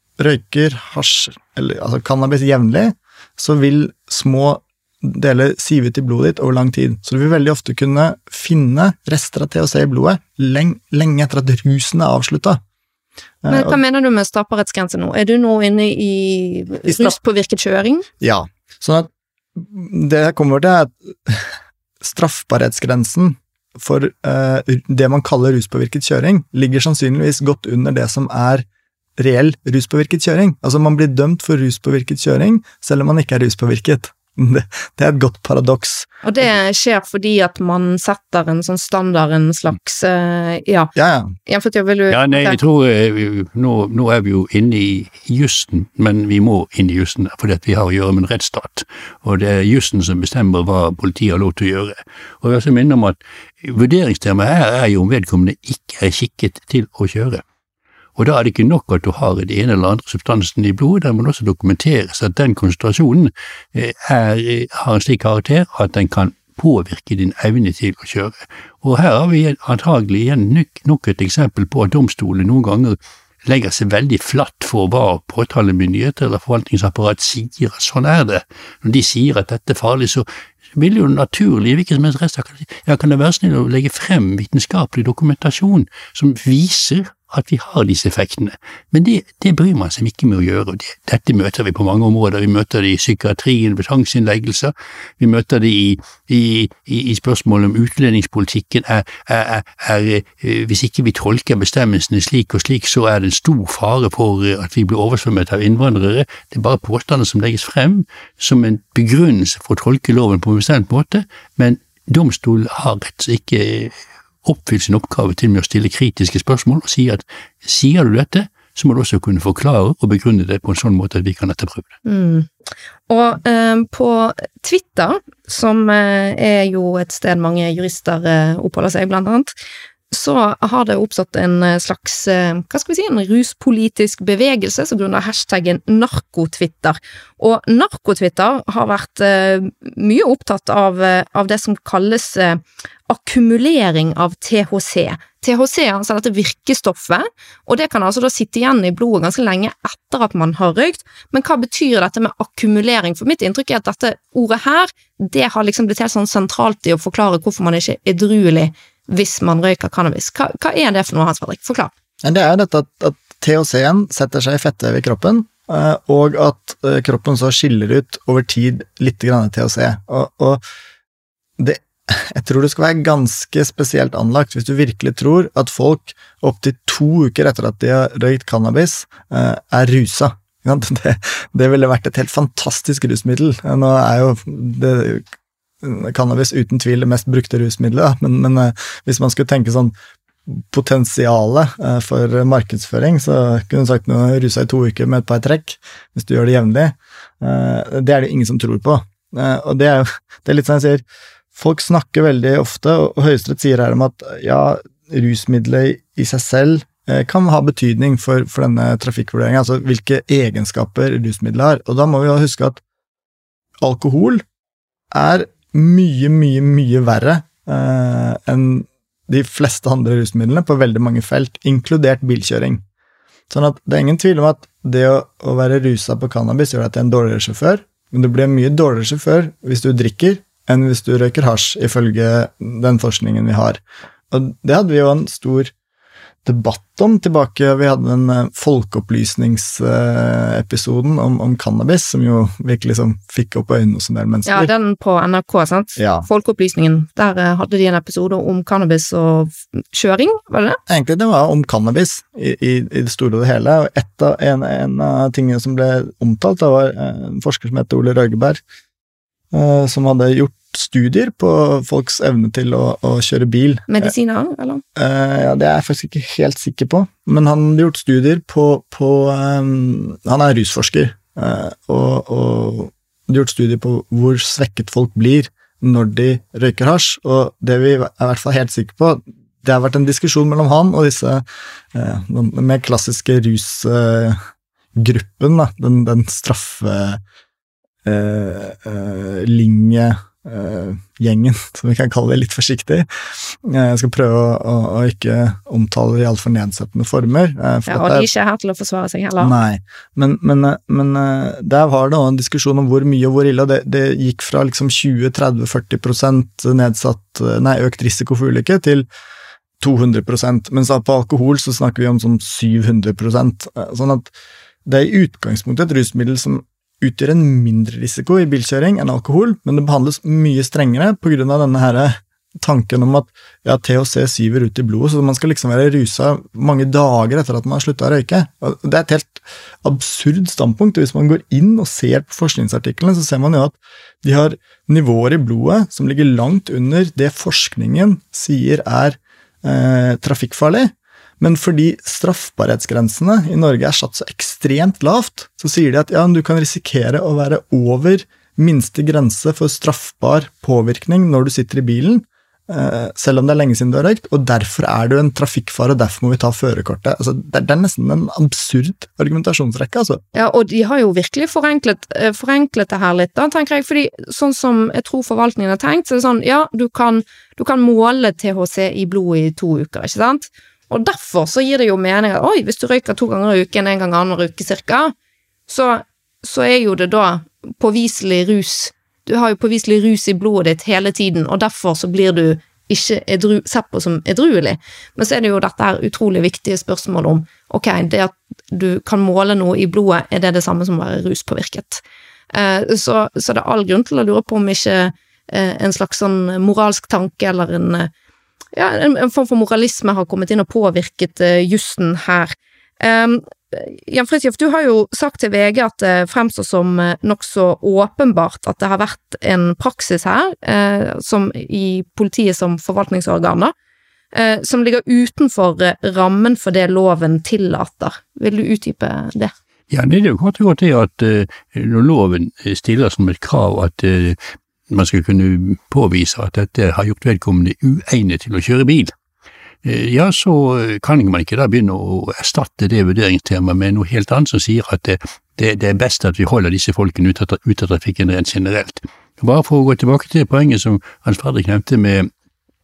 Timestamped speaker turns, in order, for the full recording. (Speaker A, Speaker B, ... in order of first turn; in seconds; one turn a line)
Speaker A: 0.2-12.6
Speaker A: 13.4-13.8
Speaker B: 13.5-18.1
Speaker A: 16.9-17.1
Speaker A: 18.2-28.6
Speaker A: 29.2-36.5
Speaker B: 36.2-40.9
Speaker A: 41.0-41.4
Speaker B: 41.5-42.6
Speaker C: 42.1-57.4
Speaker C: 58.1-121.9
Speaker B: 122.0-122.5
Speaker B: 123.1-129.5
Speaker B: 130.1-161.9
Speaker A: 162.2-170.6
Speaker A: 171.6-185.2
Speaker A: 185.8-189.9
Speaker A: 190.4-201.0
Speaker A: 201.5-212.8
Speaker A: 213.8-214.4
Speaker A: 215.1-222.8
Speaker A: 223.5-233.8
Speaker A: 234.3-235.7
Speaker A: 236.4-244.7
Speaker B: 244.5-250.8
Speaker A: 246.0-246.3
Speaker A: 250.9-258.6
Speaker A: 259.5-264.1
Speaker B: 263.9-264.8
Speaker A: 264.9-284.4
Speaker A: 284.9-287.2
Speaker A: 288.0-298.3
Speaker B: 297.9-299.5
Speaker A: 299.4-309.1
Speaker A: 309.8-314.3
Speaker A: 314.9-360.2
Speaker B: 360.3-375.1
Speaker B: 375.7-398.1
Speaker B: 398.7-413.7
Speaker B: 414.3-419.5
Speaker C: 419.9-429.1
Speaker C: 429.8-442.3